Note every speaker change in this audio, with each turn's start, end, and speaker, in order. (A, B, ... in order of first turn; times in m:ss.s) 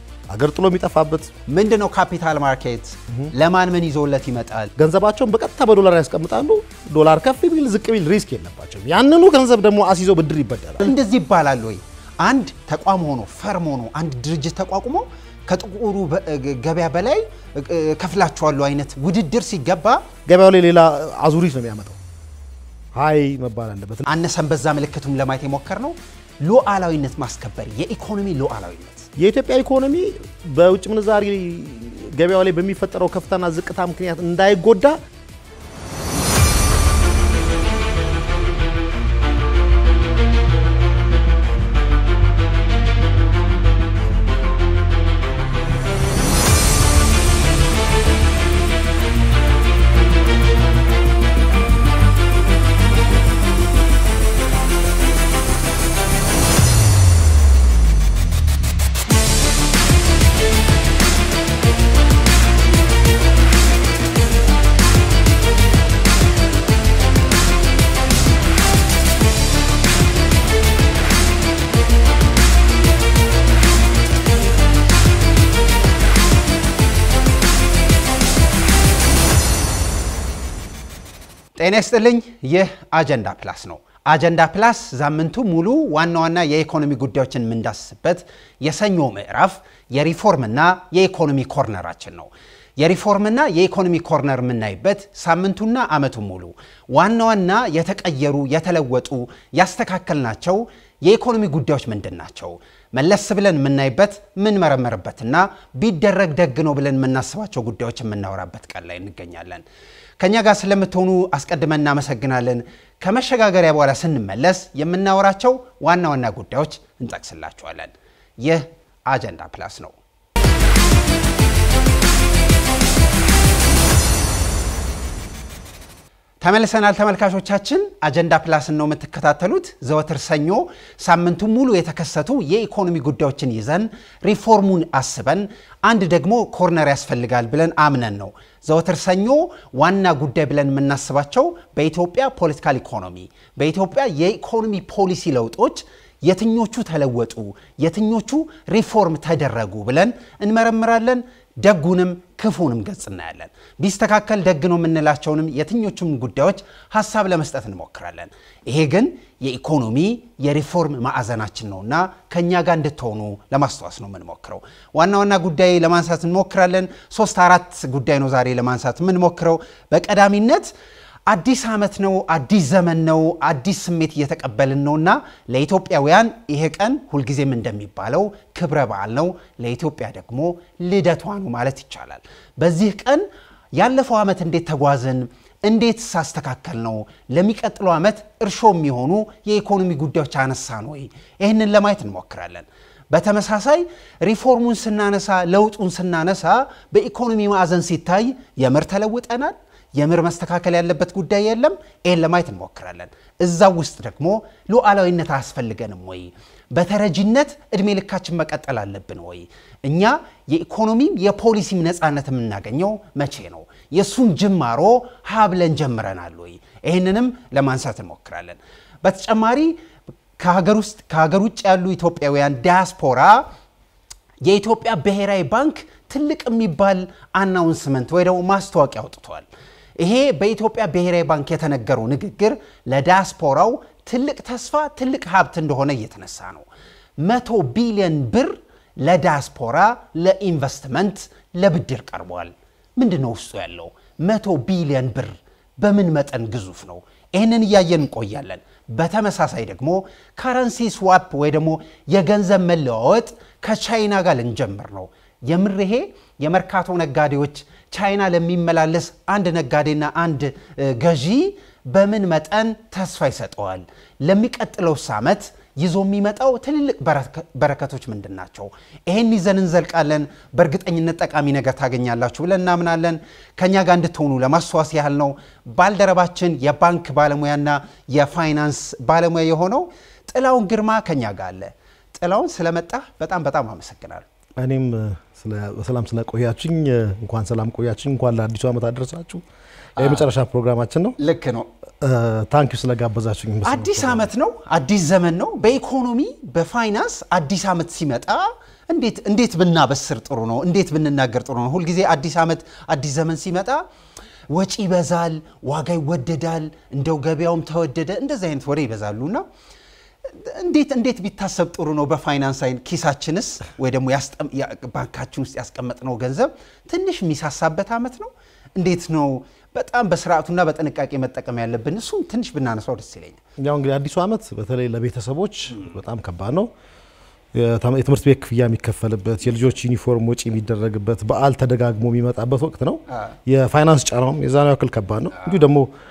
0:00.3-0:01.3 A
0:01.5-0:04.7 B
0:04.8-0:10.9 A
0:10.8-0:20.1 B
0:20.2-0:22.0 A
0:22.9-0:24.0 A
0:24.0-0:29.1 B
0:29.2-0:35.0 A
1:21.6-1:49.6 B
1:50.2-1:59.9 B
2:06.4-2:50.7 B
2:51.3-3:39.8 B
3:40.4-3:43.5 B
3:44.4-3:49.5 B
3:50.0-3:56.7 B
3:57.2-4:44.2 B
4:44.6-4:49.4 A
4:50.0-4:51.1 A
4:50.0-4:50.3 B
4:51.2-4:51.7 B
4:52.0-4:54.3 A
4:53.6-5:03.8 B
5:04.5-5:09.4 B
5:10.4-5:23.4 B
5:23.6-5:26.7 A
5:27.5-5:35.9 A